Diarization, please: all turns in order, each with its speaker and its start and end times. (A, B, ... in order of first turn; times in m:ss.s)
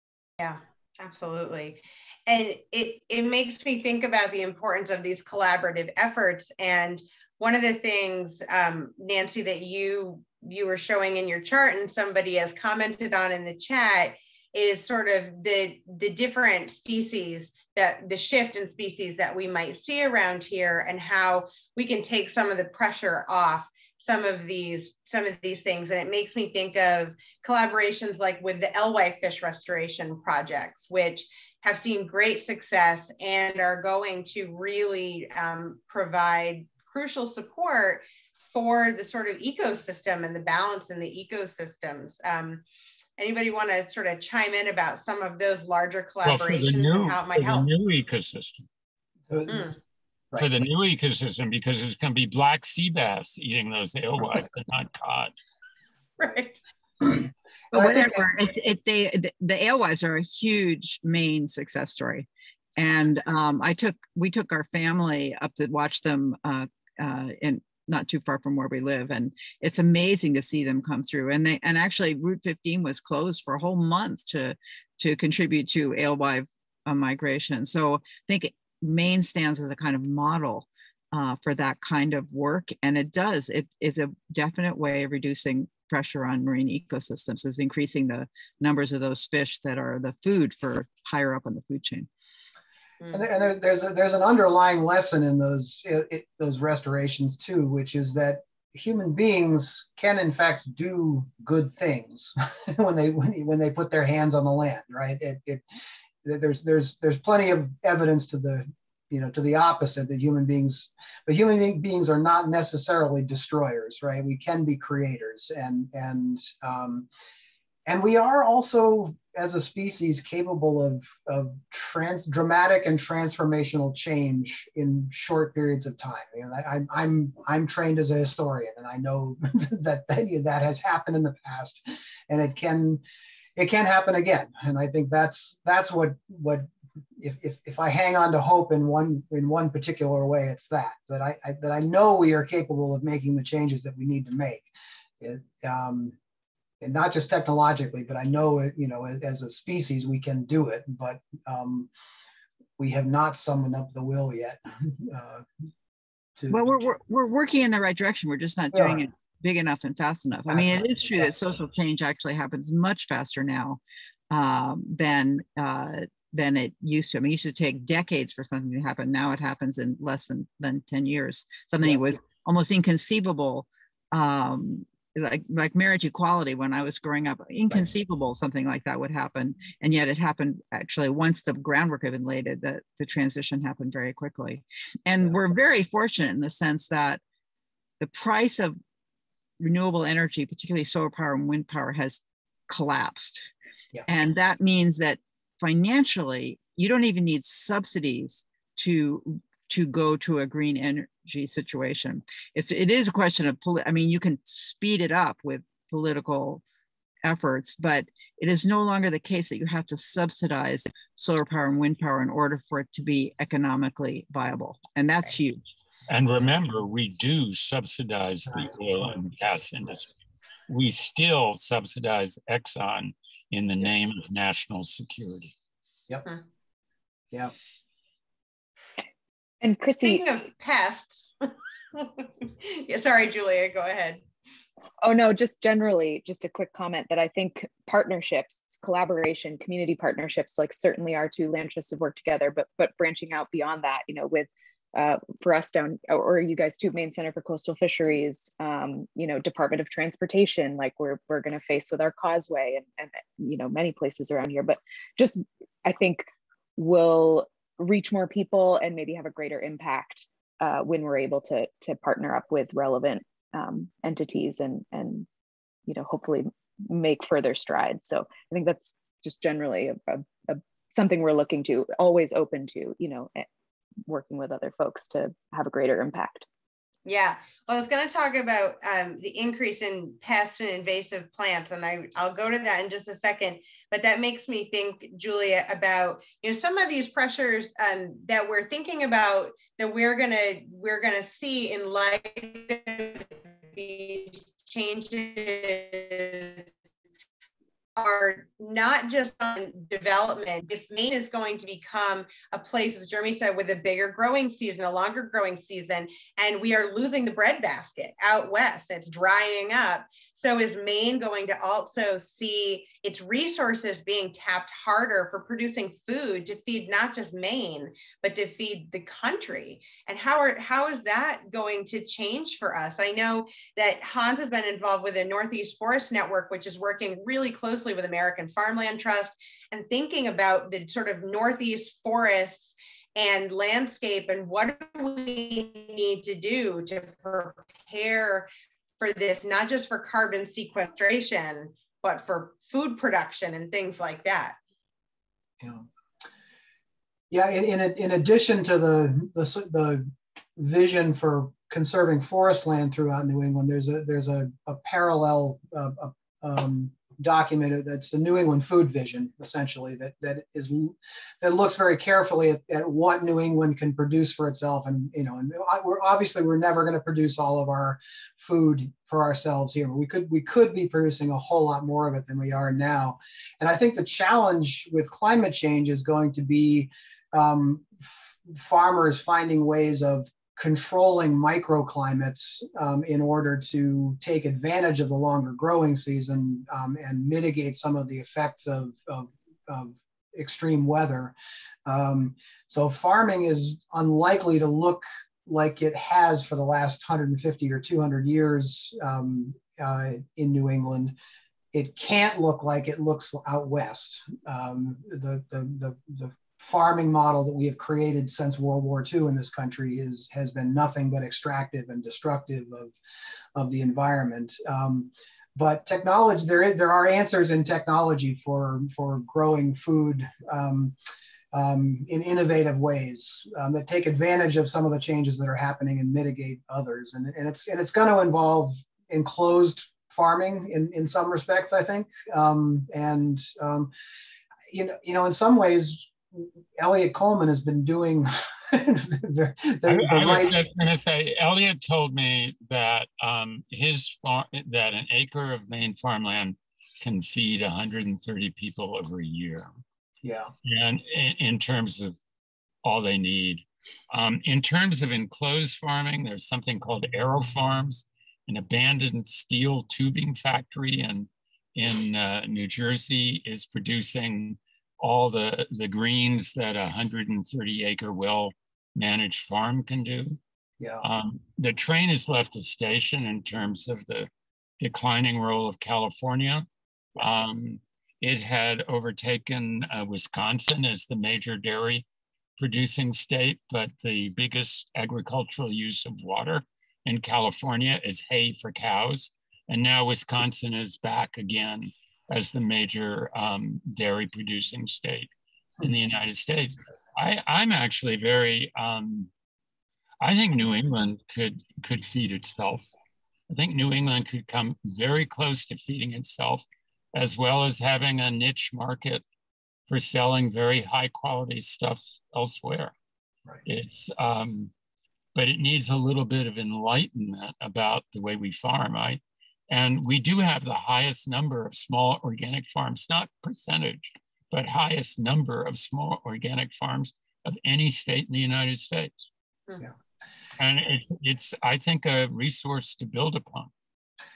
0:00.4-0:42.6 A
0:43.2-0:47.7 A
0:46.2-0:48.7 B
0:49.3-0:49.7 C
0:49.5-0:49.8 A
0:50.4-0:55.4 B
0:56.2-0:56.6 A
0:57.7-0:58.2 C
0:57.7-1:32.1 D
1:33.0-1:33.3 A
1:33.1-1:45.6 C
1:46.2-1:57.1 C
1:57.9-2:13.0 C
2:13.6-2:16.7 C
2:17.2-2:24.7 C
2:25.2-2:26.2 C
2:26.8-2:31.9 C
2:32.8-2:35.4 C
2:36.4-2:36.7 C
2:36.5-2:43.8 D
2:38.7-2:39.0 C
2:40.5-2:41.3 C
2:44.3-3:07.2 D
3:08.0-3:08.8 D
3:09.6-3:13.4 D
3:14.1-3:26.6 D
3:27.2-3:35.6 D
3:36.1-3:40.1 B
3:40.7-3:45.5 B
3:49.6-3:50.3 E
3:50.0-3:54.2 A
3:55.0-4:25.3 E
4:25.9-4:33.5 E
4:34.1-4:36.5 E
4:37.0-4:56.7 A
4:58.0-5:44.6 A
5:45.6-5:45.9 C
5:47.3-6:31.3 C
6:31.9-6:41.2 C
6:41.7-6:53.0 C
6:53.6-7:00.9 C
7:01.5-7:13.9 C
7:14.7-7:20.8 C
7:19.9-7:29.7 B
7:30.2-7:30.5 C
7:30.6-7:32.2 B
7:32.8-7:50.4 B
7:51.0-8:02.1 B
8:02.6-8:19.3 B
8:20.2-8:22.9 B
8:23.5-8:29.2 B
8:29.9-8:32.9 B
8:33.6-8:34.7 B
8:35.4-8:49.3 B
8:50.6-8:53.7 B